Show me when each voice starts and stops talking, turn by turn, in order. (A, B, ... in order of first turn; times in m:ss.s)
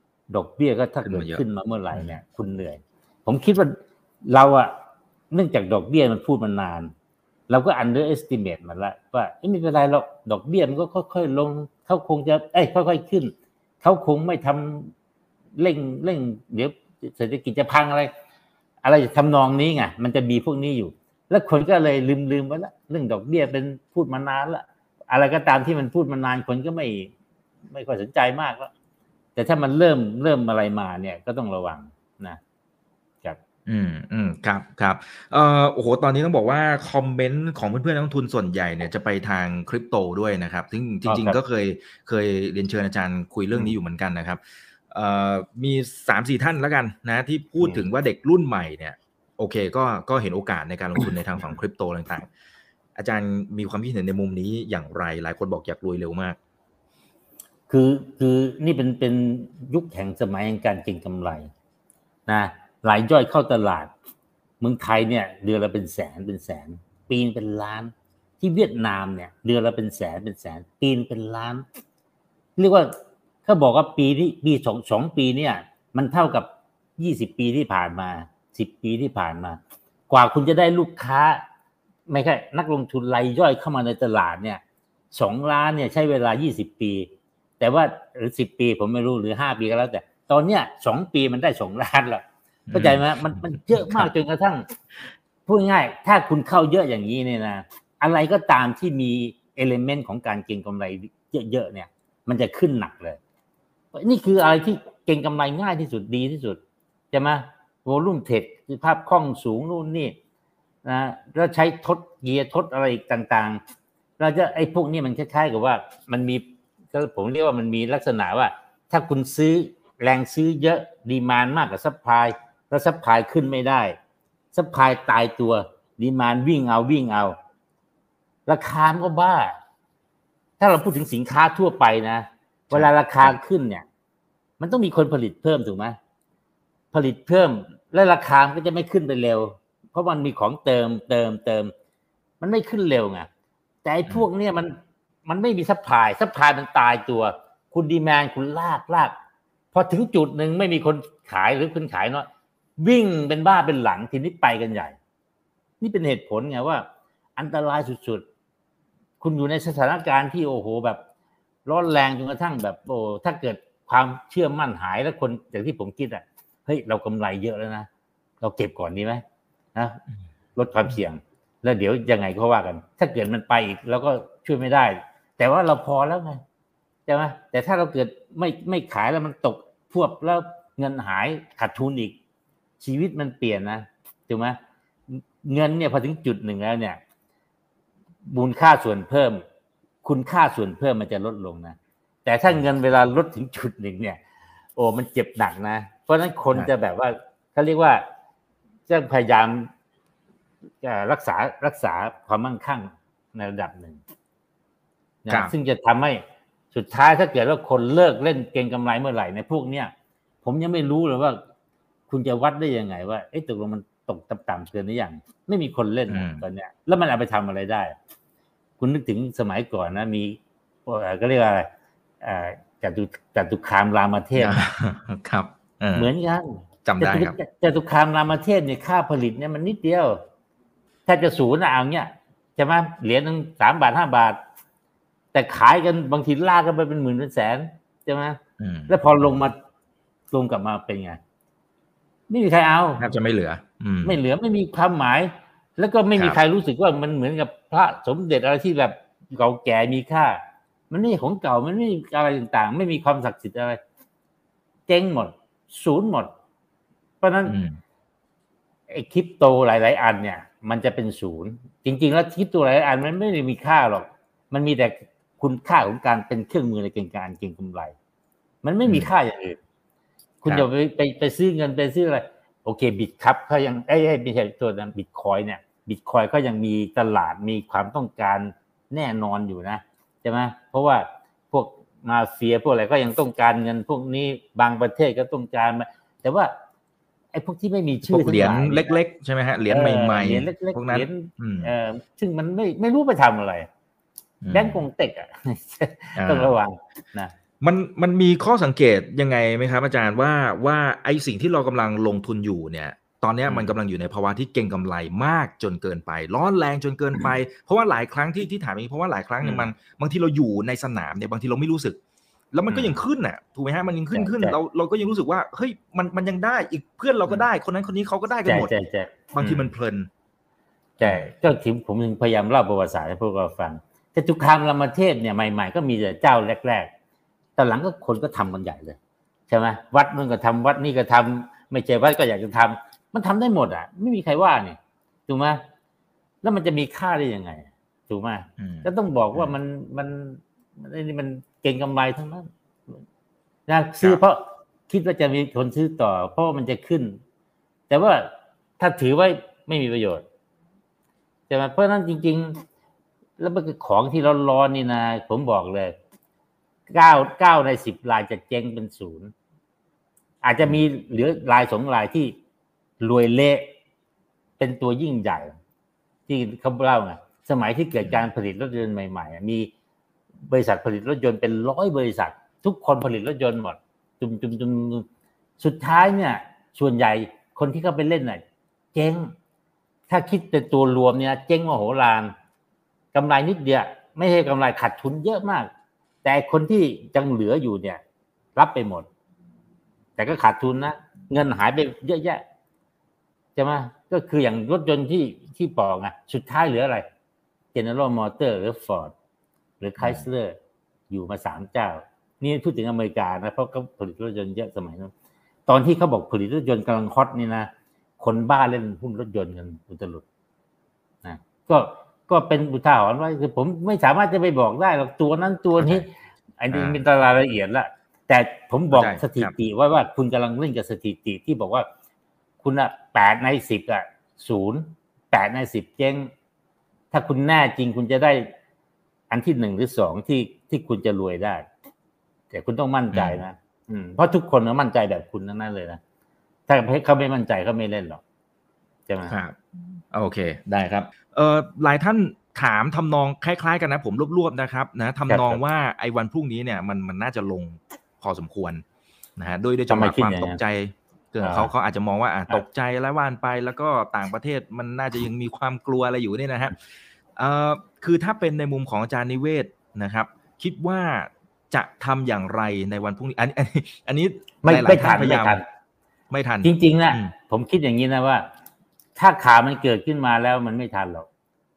0:00.3-0:03.7 A
0:01.0-0:01.4 B
0:04.3-0:04.7 A
0:05.3-0:06.9 A
0:07.5-0:14.9 A
0:15.6-0:18.1 A
0:18.8-0:27.1 A
0:27.7-0:28.7 A
0:29.4-0:32.4 A
0:33.7-0:52.3 B
0:41.1-0:41.4 A
0:53.0-0:56.4 B
0:57.7-1:01.5 A
1:02.3-1:03.9 A
1:04.6-1:11.6 A
1:12.6-1:12.9 A
1:13.4-1:19.6 A
1:20.1-1:21.4 A
1:22.1-1:24.6 A
1:25.1-1:27.1 A
1:27.6-1:34.6 A
1:32.7-1:34.1 B
1:35.4-1:43.2 A
1:43.9-1:46.6 A
1:47.1-1:50.1 A
1:50.8-1:53.6 A
1:54.2-2:04.0 A
2:04.5-2:07.4 A
2:08.5-2:09.6 A
2:10.6-2:13.8 A
2:12.7-2:13.4 B
2:14.6-2:16.0 A
2:16.9-2:21.7 A
2:22.4-2:23.3 A
2:23.8-2:29.1 A
2:29.7-2:32.3 A
2:32.8-2:35.0 A
2:35.8-2:36.8 A
2:37.4-2:38.2 A
2:39.2-2:41.0 A
2:41.6-2:47.9 A
2:48.4-2:49.2 A
2:49.7-2:50.0 A
2:50.6-2:56.4 A
2:57.1-3:02.2 A
3:02.8-3:04.6 A
3:05.1-3:07.0 A
3:08.2-3:09.4 A
3:10.0-3:14.2 A
3:14.8-3:18.0 A
3:18.9-3:19.7 A
3:20.8-3:24.0 A
3:25.2-3:29.9 A
3:30.4-3:31.4 A
3:32.1-3:38.0 A
3:36.1-3:36.4 B
3:38.8-3:41.7 A
3:42.2-3:44.7 A
3:44.4-3:46.1 B
3:45.9-3:50.2 A
3:46.8-3:47.4 B
3:51.1-3:54.4 A
3:55.3-3:59.5 A
3:58.6-3:58.9 B
4:00.3-4:01.2 A
4:02.3-4:03.1 A
4:03.0-4:04.2 B
4:04.0-4:13.8 A
4:14.9-4:16.3 A
4:17.2-4:17.6 A
4:17.4-4:17.8 B
4:18.9-4:28.0 A
4:28.6-4:29.6 A
4:30.4-4:46.5 A
4:47.3-4:49.0 A
4:48.0-4:51.7 B
4:49.7-4:53.7 A
4:54.4-4:54.8 B
4:54.5-4:57.3 A
4:56.2-4:56.5 B
4:57.6-5:12.0 B
5:03.5-5:03.7 A
5:09.4-5:09.7 A
5:12.5-5:18.7 B
5:12.7-5:13.0 A
5:14.1-5:14.6 A
5:18.5-5:19.7 A
5:19.3-5:20.1 B
5:21.0-5:26.9 A
5:21.0-5:21.3 B
5:27.6-5:29.0 A
5:29.5-5:35.6 A
5:36.4-5:42.5 A
5:38.6-5:39.5 B
5:43.7-5:47.2 A
5:47.9-5:50.2 A
5:51.5-5:52.6 A
5:53.4-5:55.9 A
5:56.9-5:59.3 A
6:00.4-6:02.3 A
6:03.0-6:03.7 A
6:04.6-6:05.5 A
6:06.3-6:09.7 A
6:10.4-6:15.0 A
6:15.6-6:18.4 A
6:18.9-6:19.3 A
6:20.1-6:22.3 A
6:23.1-6:25.7 A
6:26.2-6:28.0 A
6:28.6-6:29.1 A
6:30.2-6:32.4 A
6:33.6-6:37.0 A
6:37.7-6:39.1 A
6:39.8-6:40.6 A
6:40.0-6:40.2 B
6:41.1-6:45.1 A
6:45.7-6:50.2 A
6:51.2-7:01.9 A
6:55.8-6:56.0 B
6:56.7-6:57.0 B
6:58.9-6:59.5 B
7:02.6-7:06.3 A
7:07.1-7:08.5 A
7:09.3-7:11.7 A
7:12.5-7:16.0 A
7:13.1-7:13.4 B
7:16.7-7:18.2 A
7:19.1-7:19.3 A
7:19.3-7:19.6 B
7:20.1-7:28.8 B
7:25.3-7:25.6 A
7:29.4-7:36.8 B
7:29.9-7:30.6 A
7:31.4-7:31.7 A
7:37.4-7:45.6 B
7:44.6-7:45.6 A
7:46.3-7:47.3 B
7:46.6-7:48.4 A
7:49.2-7:51.3 A